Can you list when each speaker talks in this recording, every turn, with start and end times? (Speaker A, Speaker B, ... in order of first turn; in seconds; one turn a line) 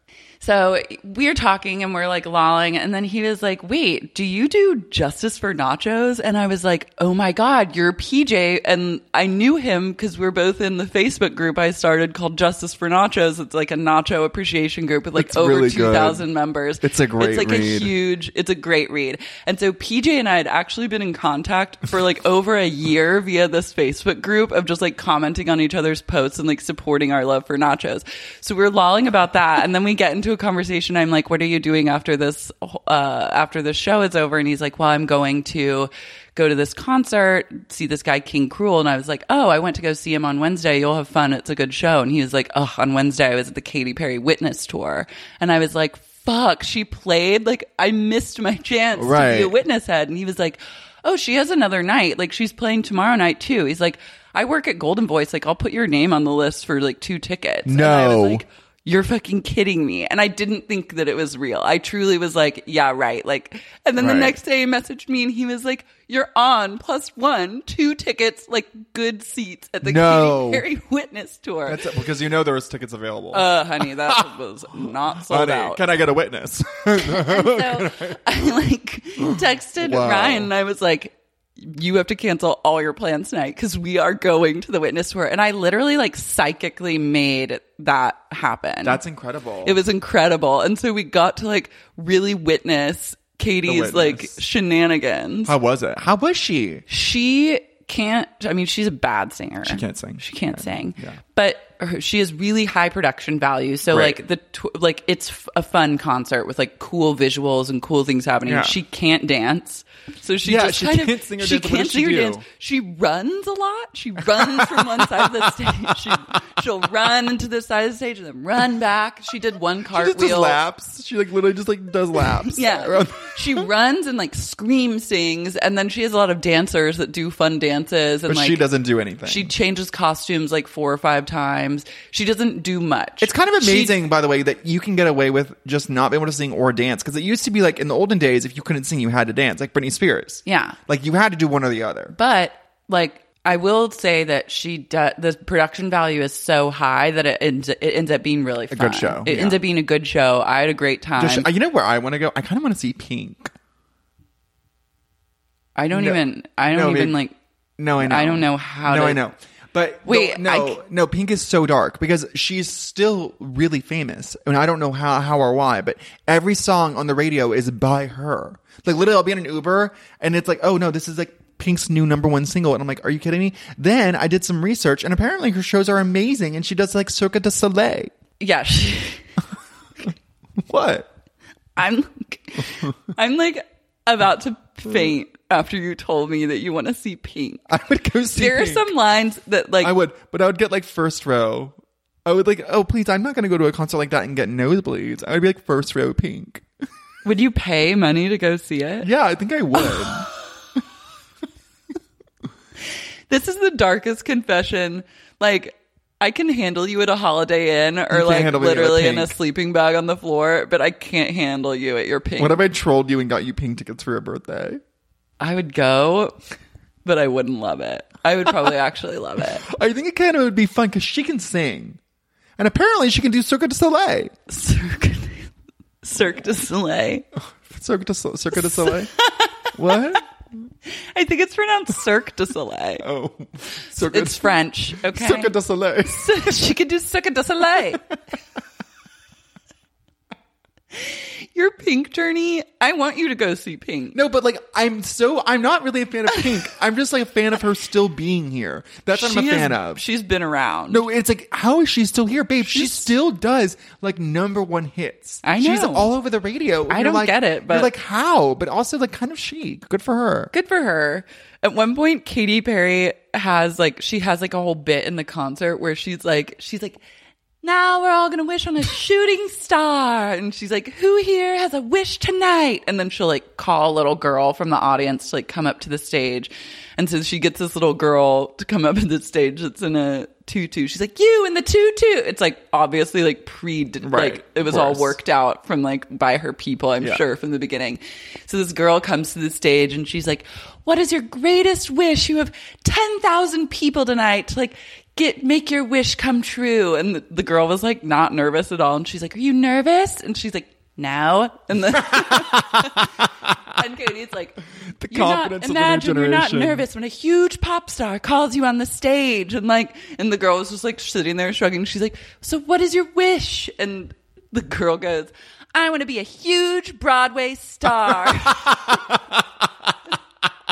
Speaker A: 0.4-72.0
Speaker B: 15.2-16.2
Speaker B: 16.8-17.9
Speaker B: 49.0-49.5
Speaker B: 57.7-58.4
Speaker B: 64.0-64.4
Speaker B: 69.8-70.7
Speaker B: 71.7-74.3
Speaker A: 73.3-75.8
Speaker B: 75.2-78.2
Speaker A: 77.0-89.0
Speaker B: 79.2-80.5
Speaker B: 88.8-89.8
Speaker A: 89.6-95.5
Speaker B: 93.6-94.4
Speaker B: 95.5-96.8
Speaker A: 96.9-120.6
Speaker B: 99.6-101.2
Speaker B: 103.9-104.2
Speaker B: 108.5-108.8
Speaker B: 110.4-112.5
Speaker B: 114.3-115.9
Speaker B: 119.9-123.7
Speaker A: 122.4-128.6
Speaker B: 128.2-129.5
Speaker A: 129.2-134.0
Speaker B: 133.2-142.2
Speaker A: 140.5-140.8
Speaker A: 142.1-151.5
Speaker B: 148.7-149.6
Speaker B: 151.2-153.5
Speaker A: 155.8-157.3
Speaker B: 155.9-157.2
Speaker B: 157.8-178.1
Speaker A: 158.0-159.2
Speaker A: 160.1-160.8
Speaker A: 178.4-179.2
Speaker B: 180.0-181.1
Speaker A: 181.8-187.7
Speaker B: 187.7-188.9
Speaker A: 188.3-189.9
Speaker B: 189.8-196.7
Speaker A: 197.2-199.1
Speaker B: 199.0-200.3
Speaker A: 203.3-212.6
Speaker B: 208.1-209.4
Speaker B: 212.4-214.8
Speaker A: 215.4-216.4
Speaker A: 217.1-219.7
Speaker B: 219.6-222.0
Speaker B: 222.6-224.3
Speaker A: 224.5-225.5
Speaker A: 226.0-227.2
Speaker B: 227.6-229.1
Speaker A: 228.6-229.7
Speaker B: 229.7-230.2
Speaker A: 230.9-233.1
Speaker B: 233.0-236.4
Speaker A: 233.9-238.0
Speaker A: 240.9-244.2
Speaker B: 244.1-250.0
Speaker A: 249.1-251.0
Speaker B: 250.9-260.5
Speaker A: 252.7-253.1
Speaker A: 255.4-256.1
Speaker A: 256.9-257.9
Speaker A: 260.5-267.0
Speaker A: 267.6-319.0
Speaker B: 284.0-285.2
Speaker B: 301.9-303.5
Speaker B: 305.0-306.8
Speaker B: 318.7-319.1